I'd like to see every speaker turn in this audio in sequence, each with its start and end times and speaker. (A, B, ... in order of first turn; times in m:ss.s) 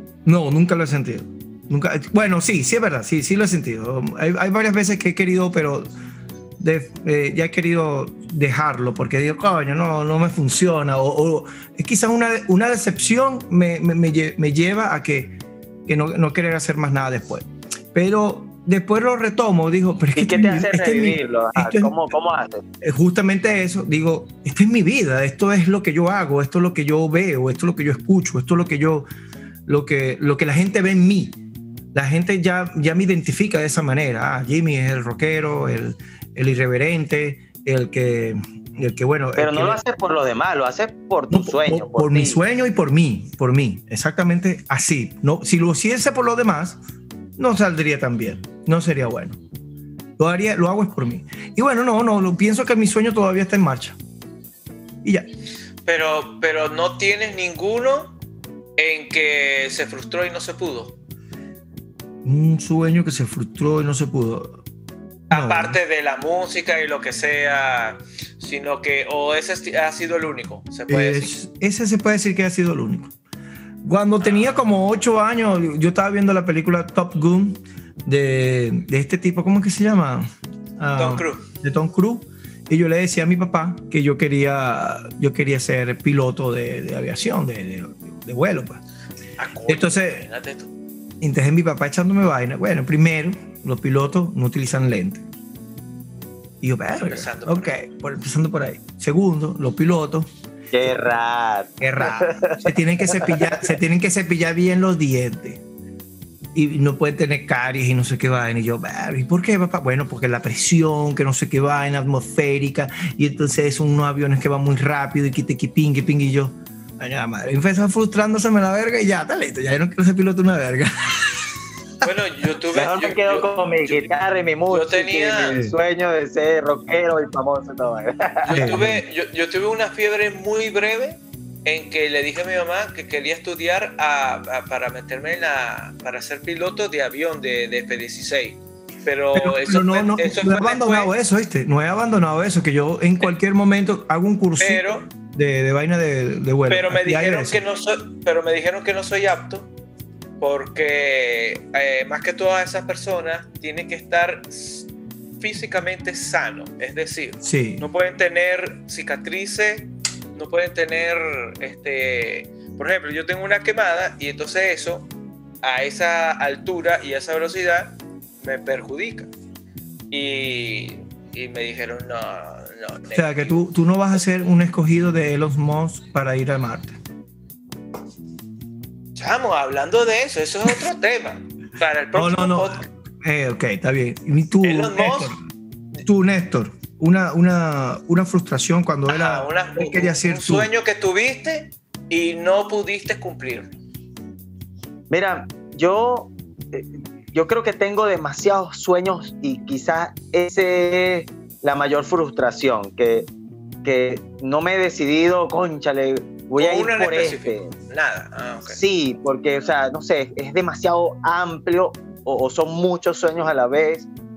0:00.2-0:05.9 A
0:06.6-0:22.0 A
0:20.2-0:22.6 B
0:22.8-0:29.0 A
0:29.7-0:31.4 A
0:31.9-0:39.8 A
0:39.4-0:42.4 B
0:41.3-0:46.8 A
0:47.4-0:49.4 A
0:50.2-0:54.0 A
0:55.8-0:58.2 C
0:58.8-1:00.9 C
1:02.2-1:04.6 A
1:05.3-1:11.3 C
1:05.3-1:05.8 A
1:10.9-1:13.1 A
1:13.8-1:28.8 A
1:20.9-1:21.4 C
1:29.4-1:30.7 C
1:29.7-1:30.2 A
1:31.2-1:35.2 A
1:36.6-1:40.3 A
1:37.0-1:37.8 C
1:40.7-1:43.7 B
1:41.8-1:45.6 A
1:46.5-2:01.5 A
2:02.0-2:04.1 C
2:02.7-2:08.8 B
2:04.7-2:05.6 C
2:08.4-2:21.1 C
2:08.5-2:09.0 A
2:19.3-2:27.6 A
2:24.6-2:25.0 C
2:26.7-2:29.7 C
2:30.4-2:34.9 C
2:35.4-2:45.1 C
2:37.4-2:37.8 A
2:45.6-2:49.3 C
2:50.1-2:53.6 C
2:53.1-2:56.9 A
2:59.1-3:02.9 C
3:02.2-3:05.4 A
3:04.6-3:05.3 C
3:06.0-3:10.7 A
3:09.1-3:13.7 C
3:15.1-3:23.3 B
3:23.8-3:27.7 B
3:26.6-3:28.8 C
3:28.7-3:34.1 B